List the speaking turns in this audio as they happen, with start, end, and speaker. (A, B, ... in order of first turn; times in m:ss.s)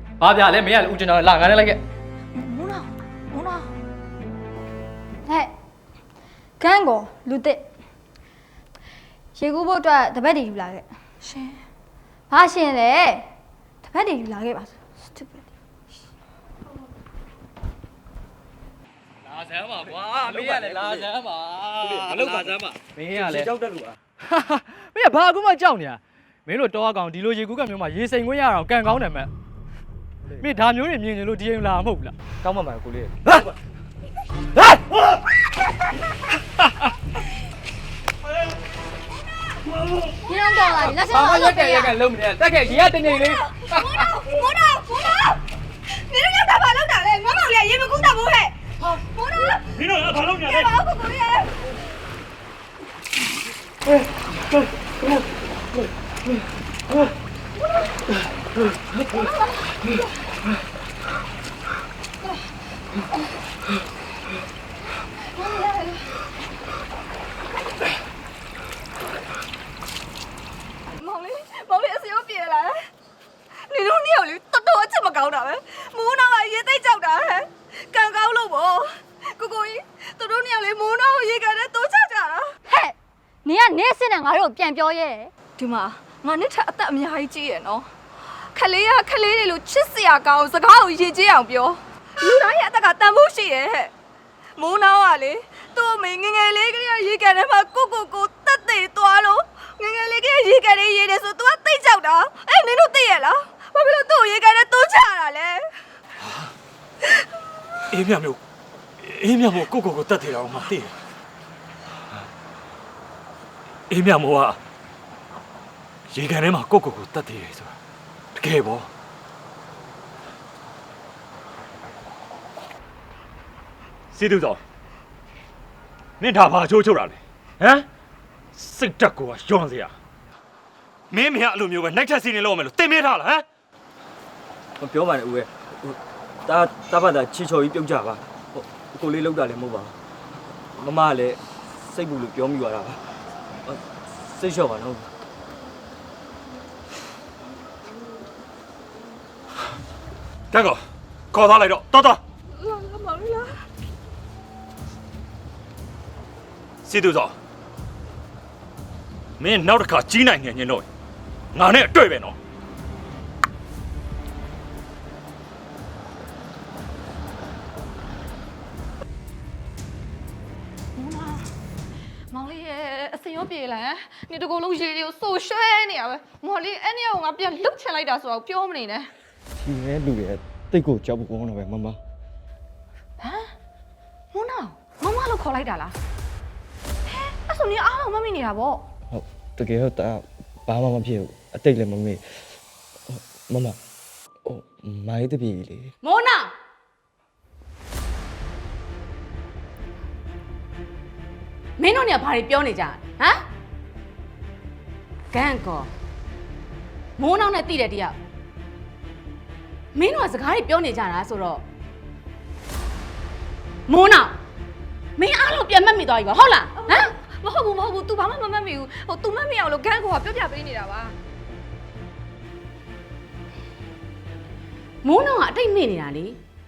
0:00.2-0:01.8 A
0:02.4-0:03.7 B
0:05.3-0:05.5 C
0:06.6-0:07.6 C
0:09.3-0:10.9 C
0:11.2-0:11.6 B
0:12.3-0:13.2 C
0:13.8-0:15.4 C
0:19.3-0:23.5 A
0:20.2-0:21.1 D
0:21.8-0:22.6 D
0:23.1-0:24.0 D
0:24.3-0:29.3 A
0:30.4-0:32.1 A
0:32.4-0:33.3 D
0:40.3-0:42.0 C
0:41.0-0:44.1 A
0:43.8-0:45.3 B
0:46.1-0:48.5 B
0:49.2-0:49.6 B
0:49.8-0:50.7 E
0:50.4-0:51.4 B
1:05.3-1:06.1 B
1:10.9-1:12.8 B
1:13.6-1:22.5 B
1:22.7-1:25.3 C
1:25.6-1:33.9 B
1:34.6-1:45.7 B
1:47.9-1:48.4 E
1:49.0-1:50.9 E
1:53.9-1:54.6 E
1:56.1-1:57.7 E
1:58.4-1:58.9 E
2:04.1-2:04.6 E
2:06.2-2:07.9 E
2:08.5-2:09.9 E
2:11.1-2:13.4 E
2:14.8-2:19.9 D
2:20.8-2:23.0 D
2:23.6-2:25.1 D
2:30.5-2:30.8 E
2:31.3-2:32.2 E
2:32.6-2:33.4 B
2:36.8-2:37.3 E
2:39.4-2:40.8 E
2:41.5-2:42.4 E
2:50.9-2:51.5 B
2:52.3-2:59.1 B
2:59.6-3:02.0 D
3:03.2-3:03.5 B
3:04.3-3:06.0 B
3:07.0-3:08.8 B
3:09.1-3:12.2 D
3:13.1-3:13.8 D
3:14.4-3:15.9 D
3:16.0-3:16.5 F
3:21.8-3:23.4 F
3:25.3-3:25.9 F
3:27.2-3:28.2 F
3:29.9-3:31.6 F
3:33.9-3:34.4 F
3:35.2-3:37.1 F
3:36.8-3:41.1 B
3:45.0-3:46.4 F